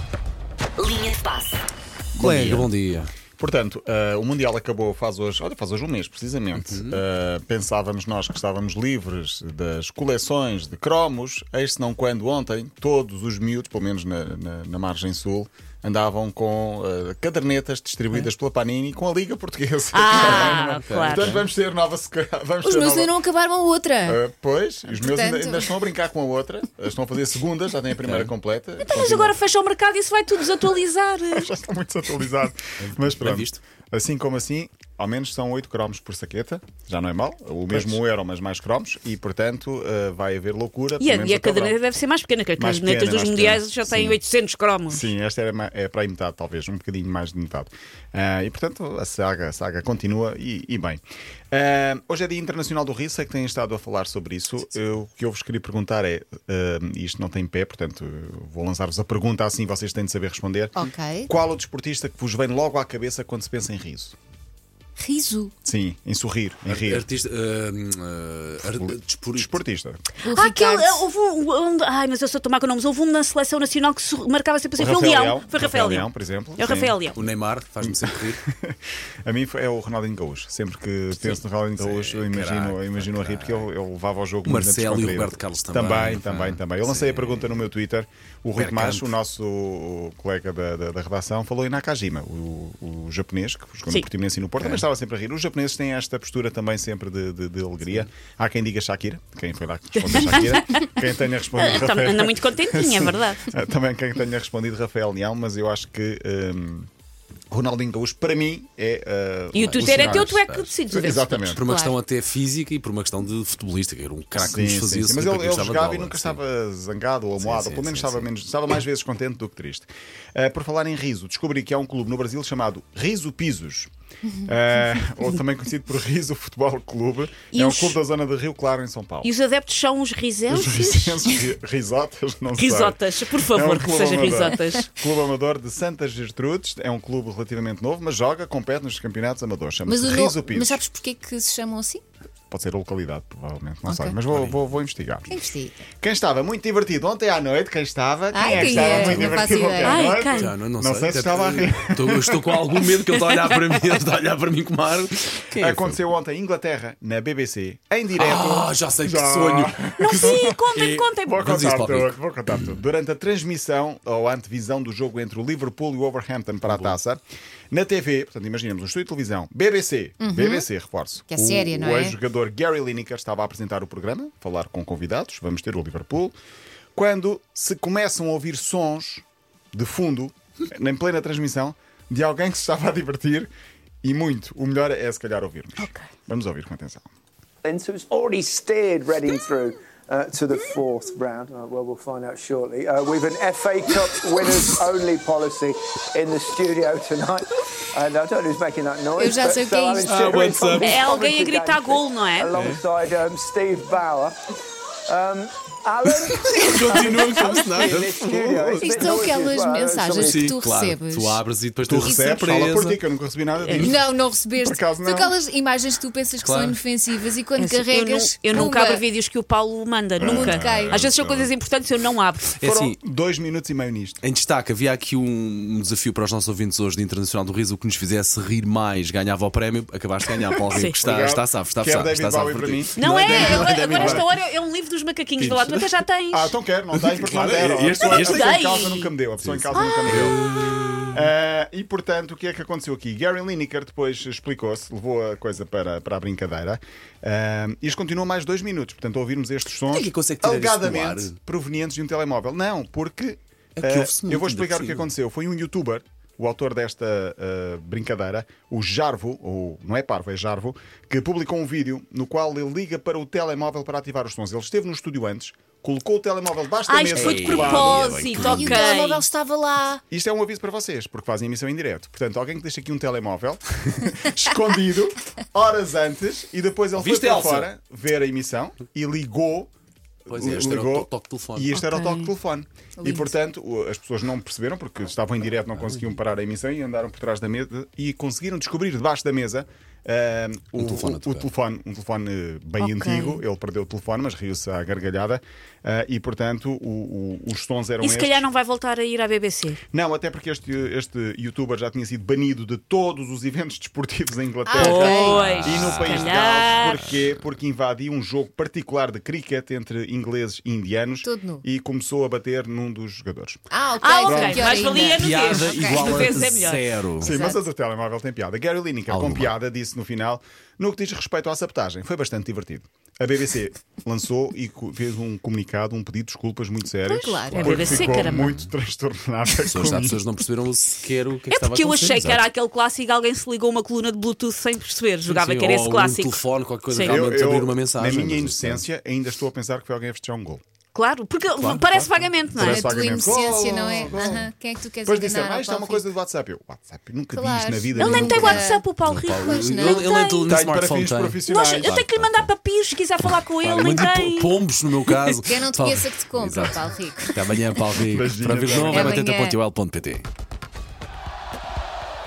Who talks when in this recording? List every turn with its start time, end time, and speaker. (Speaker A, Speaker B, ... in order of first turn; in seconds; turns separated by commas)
Speaker A: 2.1-2.7, Speaker B: 2.1-3.1, Speaker A: 3.4-23.1, Speaker B: 6.5-7.0, Speaker C: 19.9-21.4, Speaker D: 20.1-20.6, Speaker B: 20.5-21.4, Speaker D: 22.6-24.2, Speaker A: 24.0-29.4, Speaker D: 24.9-25.7, Speaker B: 28.0-28.3, Speaker C: 28.9-31.5, Speaker A: 31.3-41.8, Speaker B: 32.8-33.6, Speaker B: 37.7-38.0, Speaker C: 41.0-45.1, Speaker A: 42.6-44.2, Speaker A: 44.9-64.2, Speaker D: 60.8-61.3, Speaker D: 65.0-65.5, Speaker A: 65.6-67.1, Speaker B: 66.7-69.6, Speaker A: 68.8-70.0, Speaker D: 70.2-71.1, Speaker C: 70.2-77.2, Speaker A: 74.8-77.0, Speaker B: 77.1-78.4, Speaker A: 77.8-106.9, Speaker B: 81.1-83.7, Speaker B: 84.4-87.6, Speaker B: 88.6-89.1, Speaker C: 100.0-100.9, Speaker C: 101.5-103.5, Speaker A: 107.5-111.6, Speaker C: 109.5-111.6, Speaker B: 109.6-110.7, Speaker B: 111.5-116.4, Speaker D: 111.6-111.9, Speaker A: 114.3-123.9, Speaker B: 117.4-118.3, Speaker A: 124.4-129.3, Speaker C: 127.5-128.0, Speaker C: 129.2-131.3, Speaker A: 130.5-140.8, Speaker C: 132.6-134.9, Speaker D: 139.8-142.0, Speaker A: 142.5-145.3, Speaker D: 143.8-144.2, Speaker B: 144.3-144.6, Speaker D: 145.3-145.9, Speaker A: 146.0-152.8, Speaker D: 148.3-150.1, Speaker B: 148.8-149.4, Speaker C: 149.8-150.5, Speaker B: 150.3-156.0, Speaker C: 153.3-153.5, Speaker A: 155.6-176.3, Speaker B: 158.2-159.8, Speaker C: 160.0-161.5, Speaker B: 161.4-162.7, Speaker B: 166.7-166.9, Speaker D: 170.2-170.7, Speaker D: 171.3-172.2, Speaker A: 176.9-183.5, Speaker A: 184.0-187.1, Speaker C: 185.8-186.0, Speaker E: 187.6-204.3, Speaker D: 199.2-200.3, Speaker B: 200.0-201.0, Speaker C: 200.8-202.5, Speaker B: 202.5-202.8, Speaker E: 205.1-210.6, Speaker B: 206.5-209.1, Speaker D: 208.7-211.4, Speaker B: 210.2-213.0, Speaker A: 211.8-215.4, Speaker D: 212.0-212.8, Speaker C: 213.6-213.9, Speaker D: 213.8-219.0, Speaker B: 216.4-216.8, Speaker C: 217.6-222.5, Speaker A: 220.2-221.5, Speaker D: 220.2-221.0, Speaker B: 222.6-222.9, Speaker A: 222.6-224.2, Speaker B: 224.2-234.3, Speaker C: 230.7-230.9, Speaker A: 231.0-234.3, Speaker C: 232.9-236.5, Speaker B: 235.4-235.8, Speaker A: 236.3-240.4, Speaker B: 236.9-238.6, Speaker C: 238.0-239.1, Speaker B: 239.4-241.3, Speaker C: 239.7-240.2, Speaker A: 241.1-268.2, Speaker B: 249.9-251.3, Speaker B: 253.8-255.1, Speaker C: 266.9-269.2, Speaker B: 267.1-268.8, Speaker D: 268.1-270.0, Speaker A: 270.1-279.7, Speaker B: 276.9-277.7, Speaker B: 280.3-281.8, Speaker A: 280.3-298.4, Speaker C: 281.7-282.3, Speaker D: 283.0-283.3, Speaker B: 290.8-291.5, Speaker C: 292.8-293.4, Speaker C: 298.0-299.8, Speaker A: 299.9-313.6, Speaker D: 304.6-305.4, Speaker C: 304.8-307.1, Speaker B: 304.8-306.4, Speaker D: 311.2-311.6, Speaker D: 313.7-316.4, Speaker C: 314.0-316.9, Speaker A: 314.2-315.1, Speaker B: 315.1-317.3, Speaker D: 317.2-317.6, Speaker A: 317.2-330.2, Speaker B: 319.1-319.5, Speaker D: 327.0-328.2, Speaker C: 327.5-328.6, Speaker B: 329.6-332.4, Speaker C: 331.5-337.2, Speaker B: 335.2-338.8, Speaker A: 337.0-340.6, Speaker C: 340.9-342.9, Speaker B: 341.6-342.1, Speaker A: 342.5-344.5, Speaker D: 342.6-346.1, Speaker A: 345.1-348.6, Speaker D: 347.3-348.8, Speaker C: 348.0-350.5, Speaker B: 349.0-352.5, Speaker D: 349.4-350.1, Speaker A: 350.5-352.0, Speaker C: 351.5-354.6, Speaker B: 353.6-360.3, Speaker D: 355.3-357.6, Speaker A: 358.1-359.2, Speaker D: 358.7-359.6